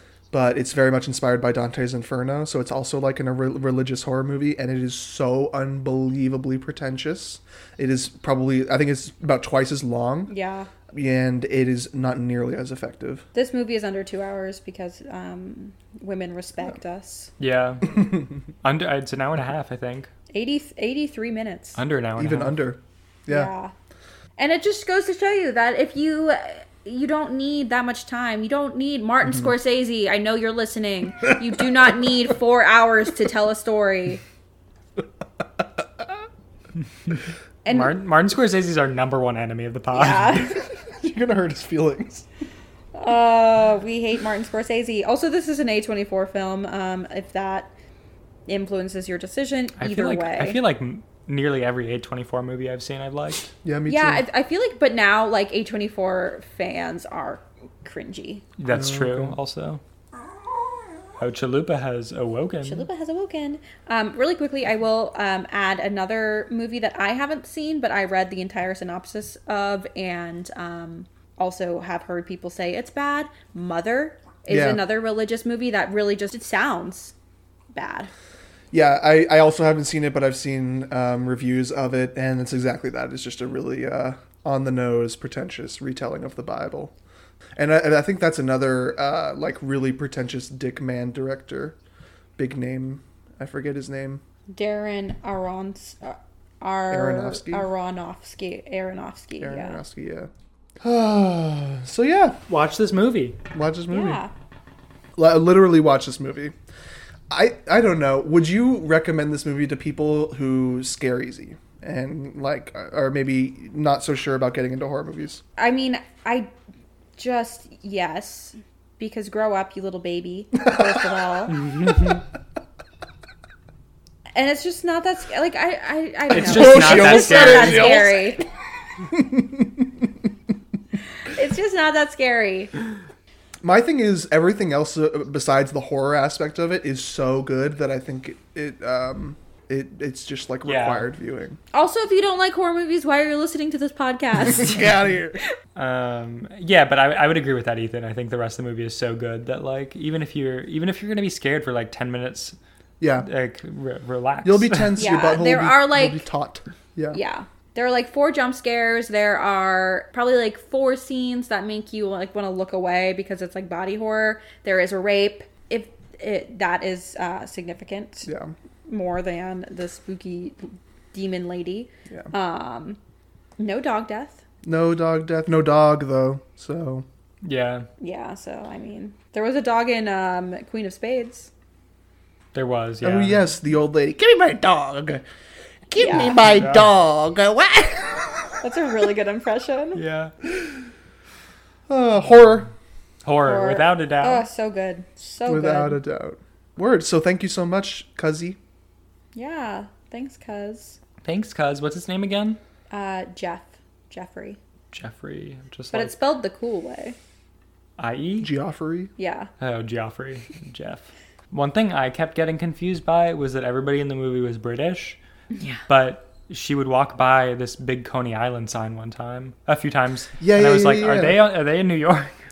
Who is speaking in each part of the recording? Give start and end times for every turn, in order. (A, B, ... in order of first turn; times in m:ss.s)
0:00.3-0:10.3 A
0:10.3-0:10.7 B
0:10.9-0:13.3 A
0:13.3-0:17.3 B
0:17.4-0:20.1 C
0:20.3-0:21.8 B
0:21.8-0:22.6 C
0:22.2-0:23.5 A
0:23.3-0:23.7 B
0:24.4-0:34.2 B
0:35.6-0:36.0 A
0:37.6-0:37.9 B
0:37.7-0:40.5 C
0:39.9-0:40.7 B
0:40.8-0:42.2 A
0:42.9-0:47.7 B
0:48.5-0:50.6 B
0:49.8-0:53.5 C
0:53.6-0:54.2 A
0:53.9-0:58.4 B
0:58.6-0:59.8 C
0:58.7-0:59.4 A
1:01.2-1:02.9 C
1:02.6-1:17.1 B
1:14.5-1:14.8 A
1:17.7-1:18.1 B
1:18.7-1:26.9 A
1:27.6-1:31.8 A
1:32.4-1:34.2 A
1:34.5-1:39.8 B
1:36.9-1:37.7 A
1:39.4-1:40.3 A
1:40.8-1:42.4 A
1:42.5-1:43.4 C
1:43.5-1:44.2 A
1:43.9-1:44.3 B
1:45.2-1:46.5 A
1:47.3-1:55.4 A
1:55.6-1:56.5 B
1:57.2-2:01.7 B
2:01.6-2:02.2 C
2:04.3-2:08.4 B
2:06.3-2:08.1 C
2:06.3-2:08.4 A
2:09.0-2:10.1 A
2:11.2-2:12.7 B
2:13.6-2:21.6 A
2:20.6-2:21.1 C
2:21.7-2:25.0 B
2:24.5-2:25.4 A
2:25.8-2:32.6 C
2:33.0-2:33.3 A
2:33.2-2:35.0 C
2:34.4-2:37.2 A
2:35.0-2:36.2 B
2:37.1-2:48.3 B
2:48.2-2:48.5 A
2:48.9-2:53.0 B
2:53.6-2:54.4 B
2:54.6-2:57.0 A
2:57.4-2:57.9 C
2:58.0-3:01.5 B
3:02.5-3:03.4 C
3:03.0-3:05.2 A
3:05.9-3:08.6 A
3:06.0-3:06.4 B
3:06.4-3:06.9 C
3:08.6-3:10.0 B
3:09.9-3:10.3 C
3:11.9-3:12.7 A
3:13.2-3:14.4 C
3:13.4-3:16.0 B
3:15.5-3:18.6 A
3:19.3-3:21.0 B
3:21.2-3:22.6 C
3:22.9-3:24.6 B
3:24.9-3:26.2 C
3:25.9-3:27.2 B
3:28.0-3:28.5 C
3:28.4-3:29.1 A
3:29.2-3:29.5 B
3:29.6-3:35.2 C
3:35.5-3:35.8 B
3:35.9-3:42.4 C
3:40.4-3:41.4 A